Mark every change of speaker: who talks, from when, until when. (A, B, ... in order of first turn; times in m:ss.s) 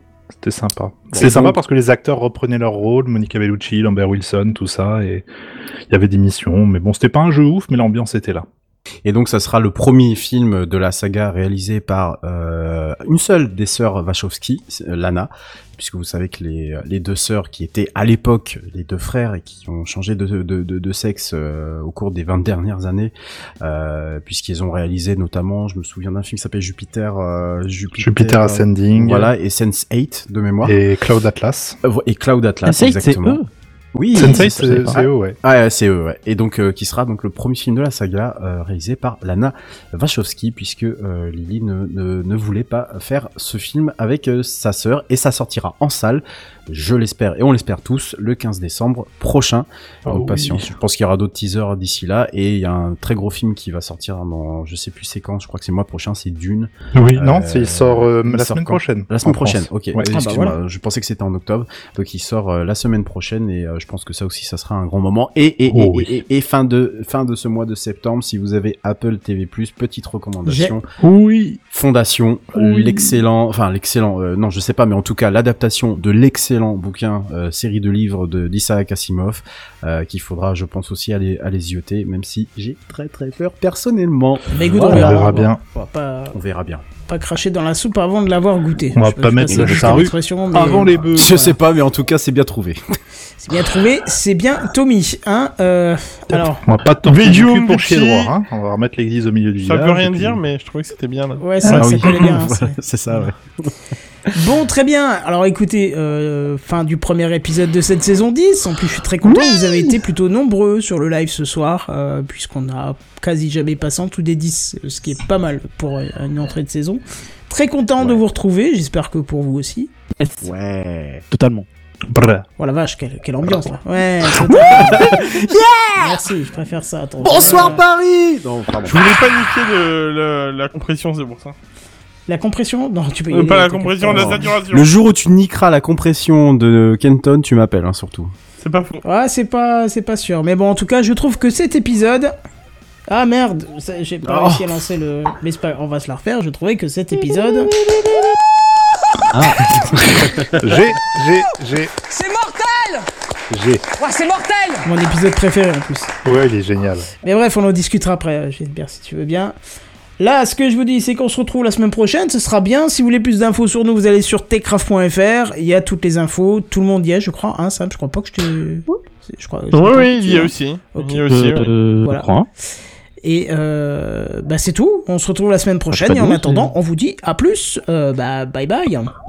0:00.3-0:05.3 A
0:01.1-0:01.6 B
0:05.9-0:08.4 A
0:09.0-0:30.8 B
0:28.0-0:29.3 A
0:30.6-0:31.8 A
0:31.8-0:33.4 B
0:32.6-0:33.4 C
0:33.9-1:10.8 B
0:34.1-0:35.4 A
0:34.2-0:35.0 C
0:50.0-0:50.7 A
0:56.9-1:00.1 A
1:00.1-1:00.6 D
1:05.7-1:06.1 A
1:10.4-1:10.8 D
1:11.0-1:11.6 A
1:11.7-1:25.3 B
1:12.5-1:13.2 A
1:24.5-1:26.4 D
1:24.8-1:25.6 A
1:26.3-1:26.8 B
1:27.1-1:31.6 D
1:28.9-1:31.4 A
1:29.4-1:30.1 B
1:31.2-1:32.8 B
1:33.4-1:36.6 D
1:36.3-1:40.4 A
1:37.0-1:38.3 E
1:39.6-1:41.7 E
1:41.4-1:43.2 D
1:41.6-1:42.0 A
1:41.8-1:43.7 B
1:44.3-1:59.9 D
2:00.1-2:00.5 C
2:00.4-2:01.2 B
2:01.3-2:01.7 C
2:02.1-2:02.4 A
2:02.6-2:05.3 D
2:04.3-2:06.1 B
2:06.0-2:07.8 D
2:07.2-2:09.2 B
2:08.8-2:11.5 E
2:12.3-2:14.5 D
2:13.3-2:14.8 E
2:14.7-2:18.3 B
2:18.6-2:19.0 E
2:19.0-2:22.3 D
2:23.1-2:27.7 D
2:24.2-2:24.8 B
2:29.6-2:30.5 B
2:30.6-2:31.9 A
2:32.1-2:33.0 F
2:33.5-2:33.8 A
2:33.9-2:34.9 F
2:34.8-2:36.1 D
2:36.2-2:37.1 A
2:37.2-2:39.6 D
2:40.2-2:51.3 D
2:49.7-2:51.7 E
2:51.3-2:52.5 C
2:52.0-2:52.3 D
2:53.2-2:59.1 D
2:55.9-2:56.7 C